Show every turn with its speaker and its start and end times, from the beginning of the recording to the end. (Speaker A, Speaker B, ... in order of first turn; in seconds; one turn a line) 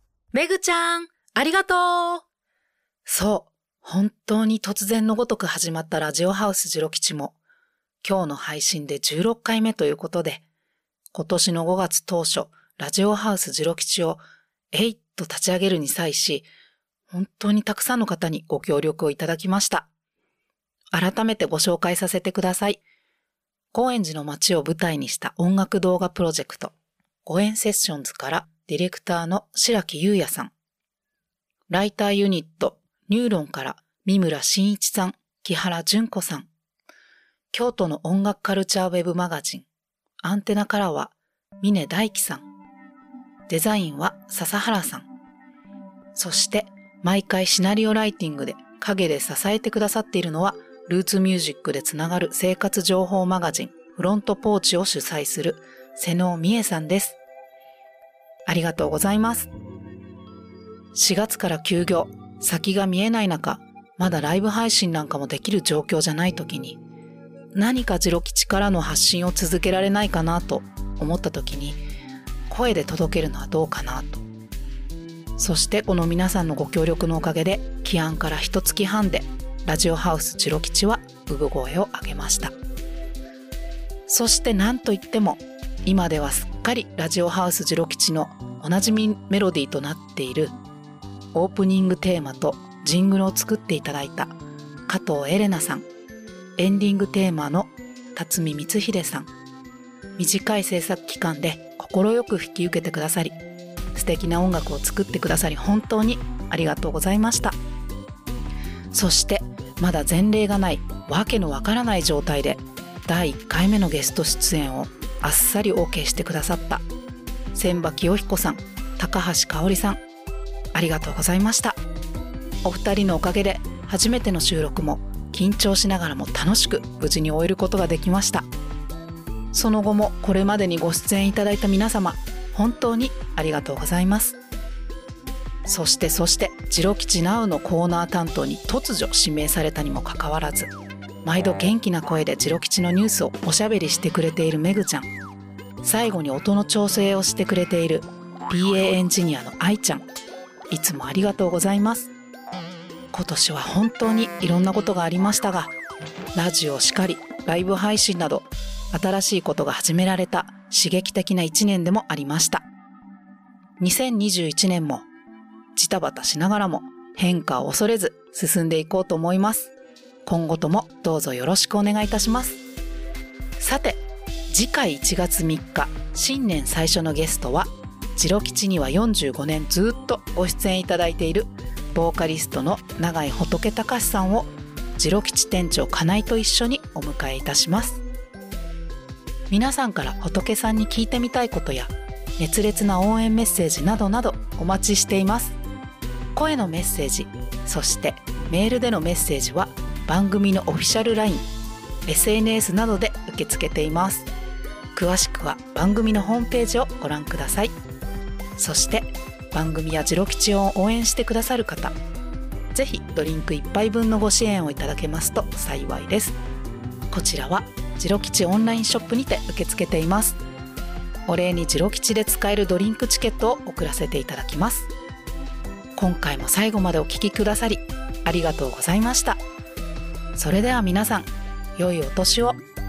Speaker A: 0.3-2.2
Speaker A: 3.1-7.4
Speaker A: 8.0-10.4
Speaker A: 11.1-14.2
Speaker A: 14.7-16.5
Speaker A: 17.1-19.9
Speaker A: 20.9-22.8
Speaker A: 23.7-26.7
Speaker A: 27.2-30.5
Speaker A: 31.7-36.5
Speaker A: 37.5-39.7
Speaker A: 40.2-42.5
Speaker A: 43.5-45.1
Speaker A: 46.1-57.2
Speaker A: 58.5-59.5
Speaker A: 60.9-66.8
Speaker A: 67.5-71.8
Speaker A: 72.5-74.2
Speaker A: 75.4-82.5
Speaker A: 84.1-90.5
Speaker A: 91.3-94.3
Speaker A: 94.9-95.9
Speaker A: 96.6-99.3
Speaker A: 100.2-103.4
Speaker A: 104.0-107.6
Speaker A: 108.9-116.8
Speaker A: 117.5-120.0
Speaker A: 120.7-121.8
Speaker A: 122.6-128.5
Speaker A: 129.5-134.4
Speaker A: 135.7-140.7
Speaker A: 141.2-145.1
Speaker A: 145.8-150.1
Speaker A: 150.7-152.1
Speaker A: 153.1-155.7
Speaker A: 156.3-162.7
Speaker A: 163.8-165.1
Speaker A: 165.8-169.7
Speaker A: 170.3-172.6
Speaker A: 173.6-188.0
Speaker A: 189.5-195.6
Speaker A: 196.3-201.5
Speaker A: 202.1-204.3
Speaker A: 204.9-207.7
Speaker A: 208.6-211.9
Speaker A: 212.7-216.4
Speaker A: 217.1-220.4
Speaker A: 221.3-224.9
Speaker A: 226.0-229.4
Speaker A: 230.4-232.6